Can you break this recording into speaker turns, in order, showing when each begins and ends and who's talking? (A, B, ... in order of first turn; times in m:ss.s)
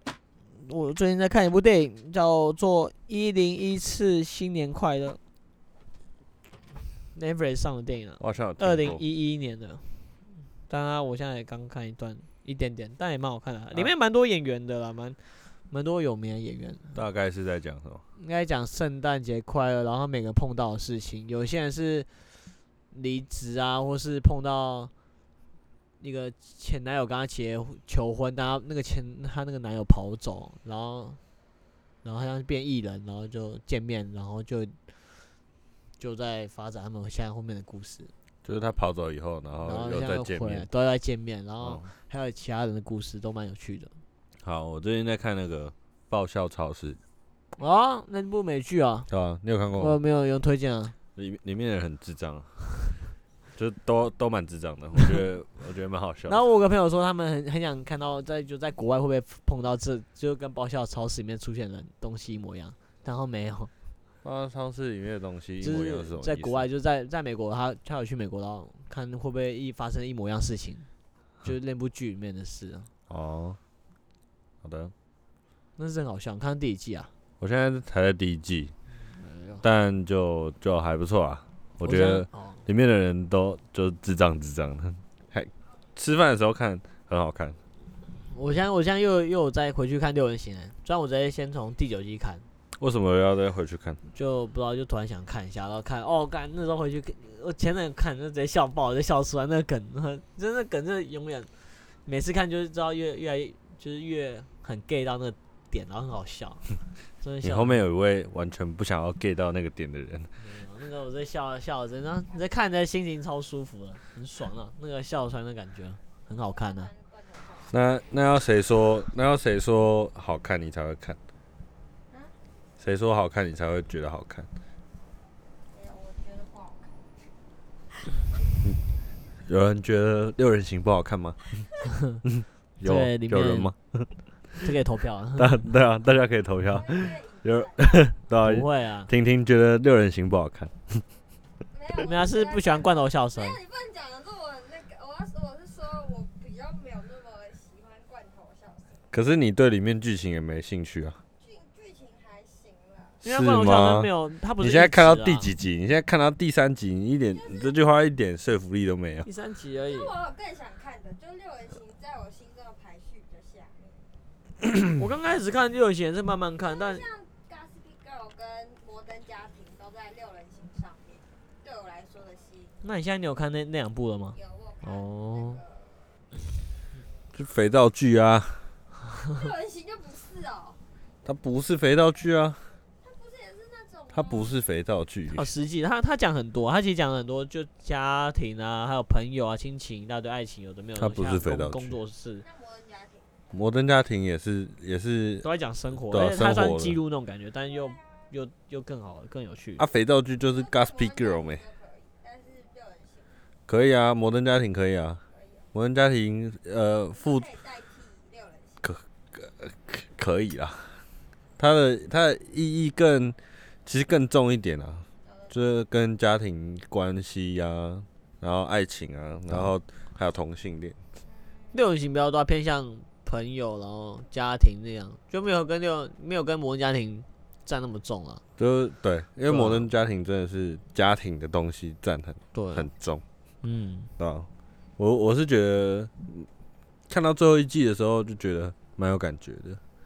0:00.6-0:05.2 A
0:07.1-0:10.1 A
0:08.2-0:09.0 B
0:10.7-0:17.0 A
0:16.9-0:18.0 B
0:18.2-0:22.1 A
0:22.9-0:24.9 A
0:26.0-0:31.2 A
0:32.0-0:34.8 A
0:36.0-0:38.1 A
0:38.4-0:40.7 B
0:39.6-0:43.9 A
0:41.6-0:41.9 B
0:44.4-0:47.0 B
0:47.6-0:49.1 A
0:49.1-0:50.0 B
0:49.8-0:51.0 A
0:51.2-0:52.5 B
0:53.6-0:56.4 B
0:56.3-1:03.7 A
1:04.2-1:06.7 B
1:05.6-1:10.9 A
1:11.4-1:12.9 A
1:13.1-1:13.6 B
1:14.6-1:14.9 B
1:15.8-1:17.1 A
1:17.4-1:18.7 B
1:19.1-1:19.6 A
1:19.6-1:27.6 B
1:21.8-1:22.6 A
1:28.3-1:32.4 A
1:32.8-1:34.0 B
1:34.1-1:41.5 A
1:42.0-1:46.6 A
1:47.2-1:47.8 A
1:47.4-1:50.3 B
1:50.4-1:56.9 A
1:56.4-1:57.8 C
1:57.7-2:01.2 B
2:02.8-2:04.5 B
2:05.7-2:07.1 C
2:09.5-2:11.4 B
2:12.3-2:14.1 B
2:12.8-2:13.7 A
2:14.6-2:15.6 A
2:15.4-2:21.0 B
2:16.7-2:18.2 C
2:18.4-2:19.1 A
2:21.7-2:29.0 C
2:22.0-2:23.6 A
2:29.1-2:31.2 B
2:31.4-2:33.2 C
2:33.2-2:35.5 A
2:33.2-2:39.3 B
2:37.3-2:37.8 C
2:39.2-2:40.1 A
2:39.8-2:44.0 C
2:45.0-2:47.0 A
2:46.6-2:52.8 C
2:52.8-2:55.6 A
2:54.3-2:56.1 C
2:57.4-2:58.7 B
2:59.3-3:00.8 C
3:01.2-3:02.6 B
3:03.0-3:04.6 C
3:04.1-3:05.5 B
3:05.3-3:12.4 A
3:11.0-3:12.0 B
3:12.4-3:13.4 C
3:13.5-3:15.5 B
3:15.4-3:19.8 A
3:16.1-3:17.0 B
3:17.7-3:18.1 C
3:19.8-3:21.6 B
3:20.5-3:23.3 C
3:23.7-3:25.2 B
3:25.3-3:25.7 C
3:25.7-3:27.5 B
3:27.1-3:28.8 C
3:28.8-3:31.0 B
3:31.6-3:41.0 B
3:35.3-3:35.6 C
3:41.2-3:41.8 C
3:41.7-3:48.4 A
3:48.6-3:53.2 B
3:49.5-3:49.9 A
3:52.5-3:52.9 A
3:53.6-3:54.1 A
3:54.2-3:56.5 B
3:57.1-3:59.8 B